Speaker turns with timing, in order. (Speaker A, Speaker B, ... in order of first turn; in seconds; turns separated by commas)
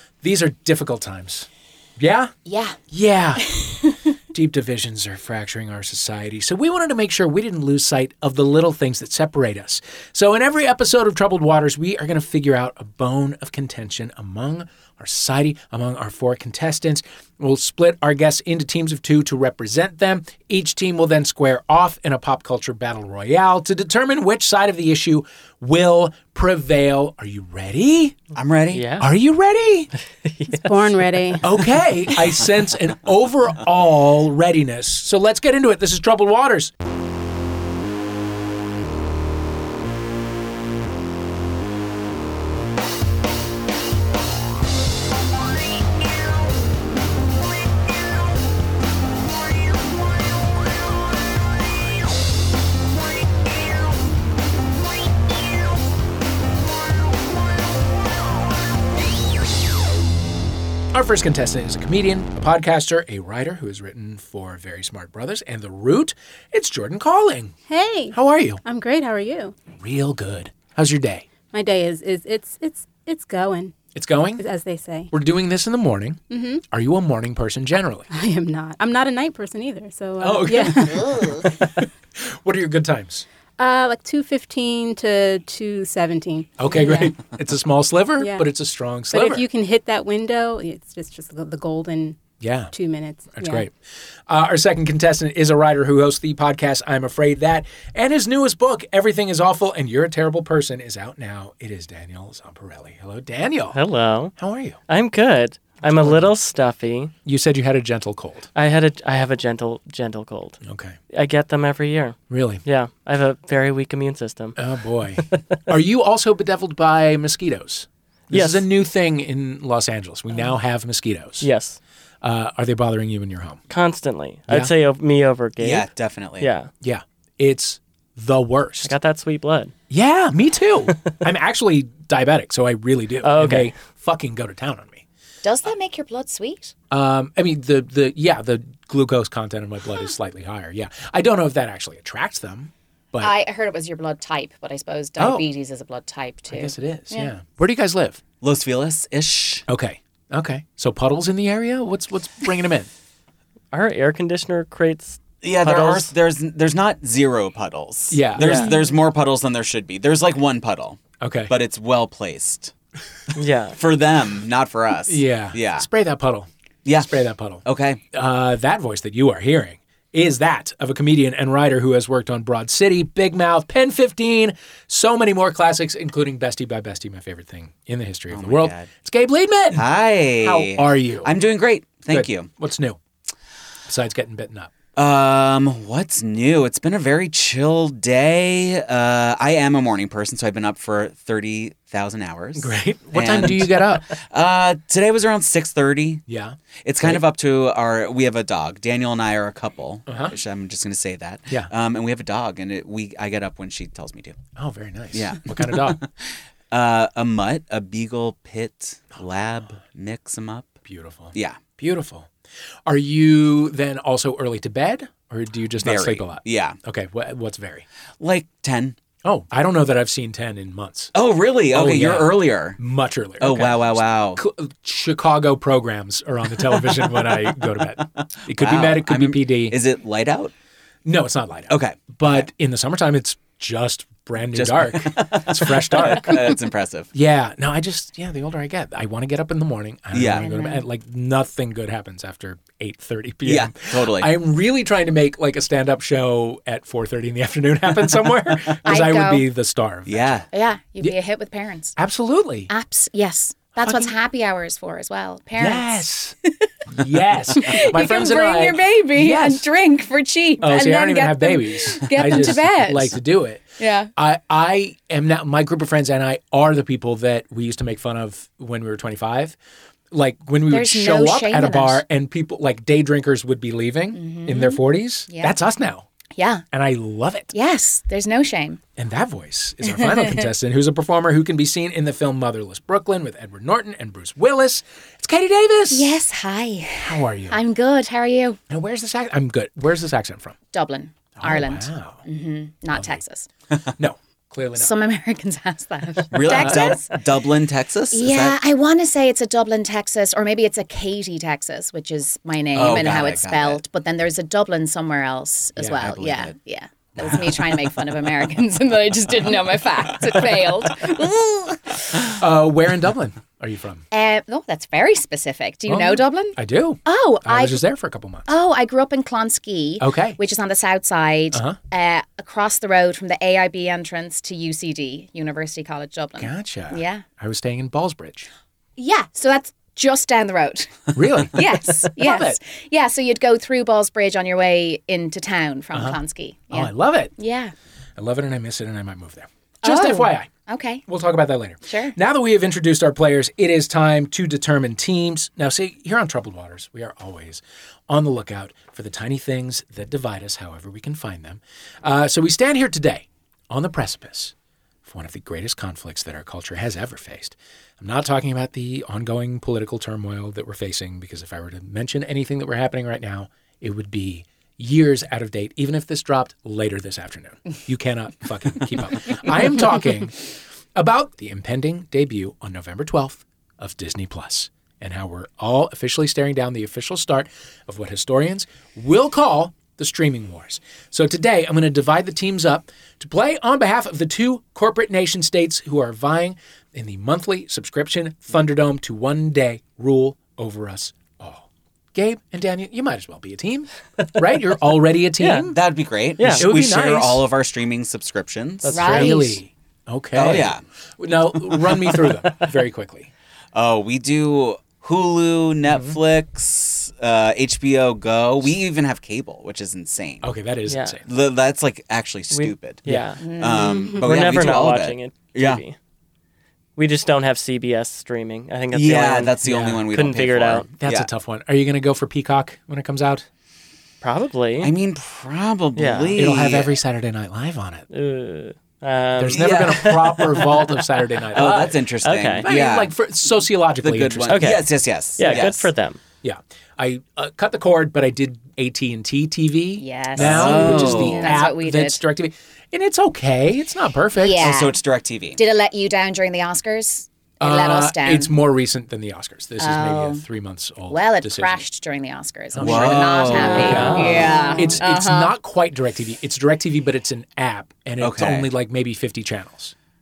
Speaker A: 0.2-2.3, Speaker B: 2.5-2.8, Speaker A: 2.9-3.5, Speaker A: 4.3-28.2, Speaker C: 28.3-28.9, Speaker D: 28.7-29.1, Speaker A: 29.0-29.9, Speaker D: 30.2-31.2, Speaker E: 30.5-31.5, Speaker A: 31.4-36.7, Speaker A: 60.9-67.5, Speaker E: 67.7-69.5, Speaker A: 68.1-68.6, Speaker A: 69.8-71.2, Speaker E: 71.5-73.7, Speaker A: 73.9-74.4, Speaker E: 74.4-75.1, Speaker A: 75.1-78.1, Speaker E: 76.3-76.6, Speaker E: 78.1-81.5, Speaker A: 80.2-83.2, Speaker B: 81.1-81.3, Speaker E: 83.6-87.2, Speaker A: 86.6-89.4, Speaker E: 88.2-88.5, Speaker E: 89.1-92.2, Speaker A: 92.4-92.7, Speaker E: 92.7-93.7, Speaker A: 93.3-93.7, Speaker A: 94.3-103.8, Speaker D: 103.7-104.3, Speaker A: 104.3-104.8, Speaker D: 104.9-107.1, Speaker A: 105.8-106.3, Speaker A: 107.2-108.5, Speaker D: 108.5-110.6, Speaker A: 110.6-111.0, Speaker D: 111.1-114.5, Speaker A: 112.3-112.6, Speaker A: 114.5-121.5, Speaker D: 118.3-118.7, Speaker D: 121.4-121.8, Speaker A: 122.2-123.6, Speaker D: 123.7-125.9, Speaker C: 125.6-126.5, Speaker D: 126.4-126.7, Speaker A: 126.8-128.9, Speaker D: 128.8-129.7, Speaker A: 129.9-135.0, Speaker D: 133.2-133.7, Speaker B: 135.4-136.7, Speaker A: 136.9-143.3, Speaker B: 143.2-147.3, Speaker A: 145.2-145.4, Speaker A: 146.5-148.2, Speaker C: 148.4-149.6, Speaker A: 149.7-152.9, Speaker D: 153.7-156.1, Speaker C: 155.4-162.7, Speaker A: 158.1-158.7, Speaker D: 158.4-158.7, Speaker A: 161.2-161.5, Speaker D: 163.3-163.8, Speaker C: 163.7-165.9, Speaker A: 165.1-179.8, Speaker C: 167.6-168.0, Speaker C: 178.3-178.9, Speaker C: 179.7-182.5, Speaker A: 180.4-181.3, Speaker A: 182.1-183.0, Speaker A: 183.9-184.7, Speaker C: 184.9-196.2, Speaker A: 192.6-194.1, Speaker A: 196.3-197.2, Speaker C: 196.8-204.4, Speaker A: 200.1-200.4, Speaker A: 204.6-206.0, Speaker C: 205.1-210.7, Speaker A: 210.8-212.3, Speaker C: 211.3-211.6, Speaker A: 212.8-217.8, Speaker C: 215.8-216.8, Speaker C: 218.2-219.0, Speaker A: 219.2-221.1, Speaker C: 221.1-222.8, Speaker A: 221.7-229.8, Speaker C: 223.4-224.4, Speaker C: 226.9-227.3, Speaker C: 228.2-230.5, Speaker A: 231.0-236.5, Speaker C: 231.7-232.5, Speaker C: 234.5-237.1, Speaker A: 237.1-250.4, Speaker C: 240.1-240.5, Speaker B: 240.3-240.8, Speaker C: 243.4-244.3, Speaker B: 248.8-249.5, Speaker C: 250.1-250.5, Speaker B: 250.5-251.9, Speaker A: 252.0-252.7, Speaker B: 252.7-256.7, Speaker A: 253.8-254.1, Speaker A: 255.6-256.4, Speaker A: 256.9-259.6, Speaker B: 257.5-263.2, Speaker A: 260.6-269.6, Speaker B: 263.8-264.1, Speaker A: 270.1-276.1, Speaker B: 270.7-272.0, Speaker B: 274.1-275.6, Speaker B: 276.3-276.6, Speaker A: 276.7-277.5, Speaker B: 277.5-278.8, Speaker A: 278.9-286.2, Speaker B: 279.9-280.4, Speaker B: 285.9-288.6, Speaker A: 287.0-287.6, Speaker A: 288.7-290.6, Speaker B: 290.7-293.5, Speaker A: 291.4-292.2, Speaker A: 292.9-293.2, Speaker A: 294.0-294.9, Speaker B: 294.8-297.2, Speaker C: 296.3-298.6, Speaker B: 298.1-312.3, Speaker C: 302.7-303.8, Speaker A: 305.8-306.4, Speaker C: 306.0-306.5, Speaker A: 307.2-307.5, Speaker A: 312.3-314.0, Speaker B: 314.1-317.8, Speaker A: 315.9-318.5, Speaker B: 318.5-327.2, Speaker A: 320.0-320.4, Speaker A: 321.5-321.8, Speaker A: 326.4-328.5, Speaker B: 329.0-337.7, Speaker A: 331.1-332.6, Speaker A: 336.7-337.3, Speaker A: 338.2-340.5, Speaker B: 339.8-341.0, Speaker A: 341.1-354.5, Speaker B: 341.9-342.1, Speaker A: 355.0-370.3, Speaker A: 370.9-395.8, Speaker D: 395.4-395.7, Speaker C: 395.7-399.3, Speaker D: 396.4-396.6, Speaker A: 396.5-397.4, Speaker A: 398.9-403.3, Speaker B: 398.9-399.6, Speaker D: 398.9-399.3, Speaker C: 400.3-400.8, Speaker C: 403.7-410.5, Speaker A: 410.4-411.2, Speaker D: 410.9-411.2, Speaker C: 411.2-415.8, Speaker D: 412.5-413.4, Speaker B: 413.4-414.1, Speaker D: 414.2-415.9, Speaker D: 417.0-419.5, Speaker C: 418.9-421.3, Speaker A: 419.6-420.0, Speaker D: 420.1-420.9, Speaker A: 421.0-423.4, Speaker D: 424.2-424.9, Speaker C: 424.8-426.9, Speaker D: 425.9-426.4, Speaker A: 426.4-428.1, Speaker D: 428.1-430.9, Speaker A: 429.4-432.0, Speaker C: 429.5-430.4, Speaker C: 431.5-433.1, Speaker D: 432.2-432.6, Speaker A: 432.6-434.7, Speaker C: 434.0-435.9, Speaker D: 434.5-436.2, Speaker A: 436.4-444.7, Speaker B: 440.0-442.2, Speaker C: 440.3-441.6, Speaker B: 444.4-445.0, Speaker C: 444.6-445.6, Speaker B: 445.6-448.5, Speaker A: 447.6-451.8, Speaker B: 449.8-450.4, Speaker B: 451.1-455.5, Speaker A: 452.7-459.9, Speaker C: 452.8-454.5, Speaker D: 453.6-454.8, Speaker C: 458.2-458.7